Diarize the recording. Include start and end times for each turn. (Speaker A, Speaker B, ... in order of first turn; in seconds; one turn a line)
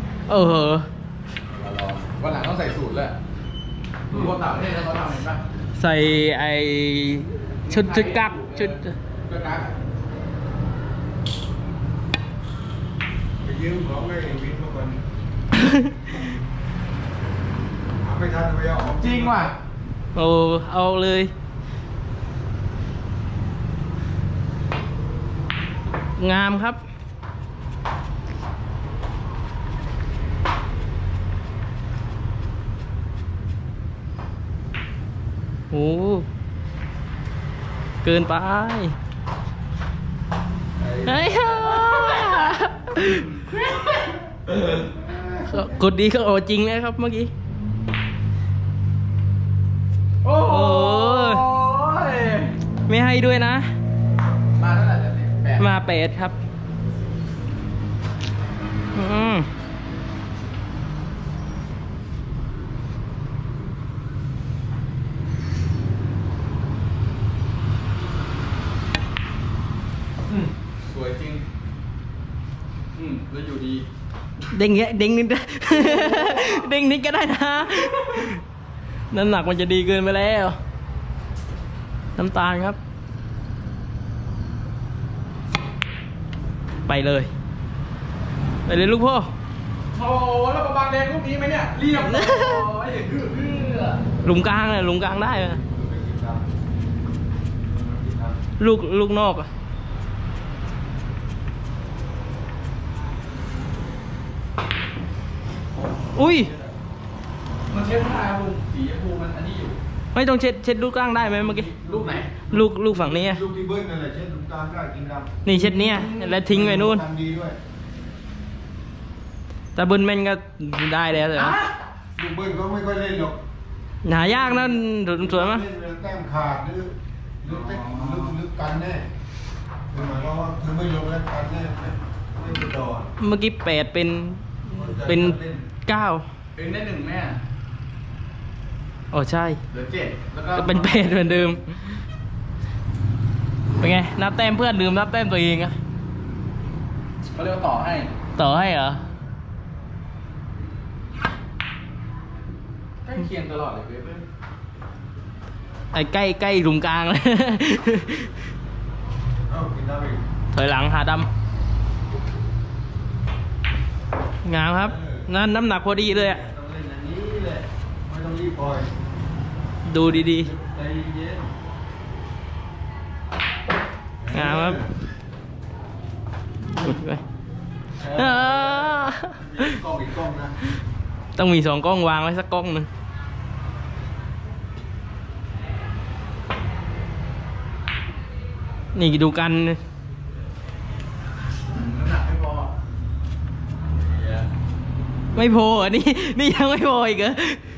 Speaker A: 0.3-0.9
Speaker B: 1.5-3.2
Speaker B: 4.1-5.4
Speaker A: 5.8-8.9
Speaker B: 7.6-9.8
Speaker C: 13.4-15.0
Speaker A: 15.6-16.2
Speaker C: 18.0-19.5
Speaker B: 19.0-19.6
Speaker A: 20.1-21.3
Speaker A: 26.2-26.8
Speaker A: 35.7-36.2
Speaker A: 38.0-38.9
Speaker C: 40.8-41.6
Speaker A: 41.0-43.4
Speaker B: 41.7-42.5
Speaker B: 43.4-44.2
Speaker C: 44.5-45.8
Speaker A: 45.5-47.3
Speaker B: 50.2-52.5
Speaker A: 50.4-51.5
Speaker A: 52.9-53.7
Speaker B: 54.5-55.7
Speaker A: 55.6-56.4
Speaker A: 58.9-59.5
Speaker B: 70.3-71.4
Speaker B: 72.9-73.8
Speaker A: 74.5-78.4
Speaker B: 75.7-76.6
Speaker A: 79.1-80.6
Speaker A: 82.2-82.8
Speaker A: 86.9-87.3
Speaker A: 88.7-89.3
Speaker B: 89.9-94.0
Speaker A: 91.9-92.7
Speaker A: 94.2-95.6
Speaker C: 95.5-96.4
Speaker C: 97.7-98.4
Speaker A: 98.6-99.5
Speaker C: 105.8-106.7
Speaker A: 106.1-106.5
Speaker B: 107.7-109.8
Speaker A: 110.1-111.7
Speaker B: 111.5-112.3
Speaker C: 111.6-117.6
Speaker A: 112.5-113.4
Speaker A: 115.4-117.0
Speaker A: 119.7-121.6
Speaker B: 121.3-121.7
Speaker C: 122.2-123.4
Speaker A: 124.0-125.7
Speaker C: 124.1-129.0
Speaker B: 127.4-128.4
Speaker C: 129.9-133.1
Speaker A: 133.2-136.2
Speaker C: 134.7-135.7
Speaker B: 136.6-137.4
Speaker A: 139.1-139.6
Speaker B: 139.7-141.6
Speaker A: 140.5-142.0
Speaker A: 143.8-145.7
Speaker B: 147.3-148.1
Speaker A: 148.3-149.0
Speaker B: 153.0-154.2
Speaker A: 155.9-158.3
Speaker C: 159.5-160.2
Speaker A: 160.5-161.3
Speaker A: 164.4-166.4
Speaker C: 164.7-165.3
Speaker C: 165.9-168.9
Speaker A: 169.8-170.5
Speaker C: 170.0-171.5
Speaker C: 174.2-174.9
Speaker A: 174.3-174.8
Speaker A: 176.8-177.2
Speaker C: 178.0-180.5
Speaker A: 178.1-179.4
Speaker A: 181.3-182.9
Speaker A: 188.9-189.8
Speaker B: 191.7-192.7
Speaker B: 194.1-194.5
Speaker A: 195.3-197.6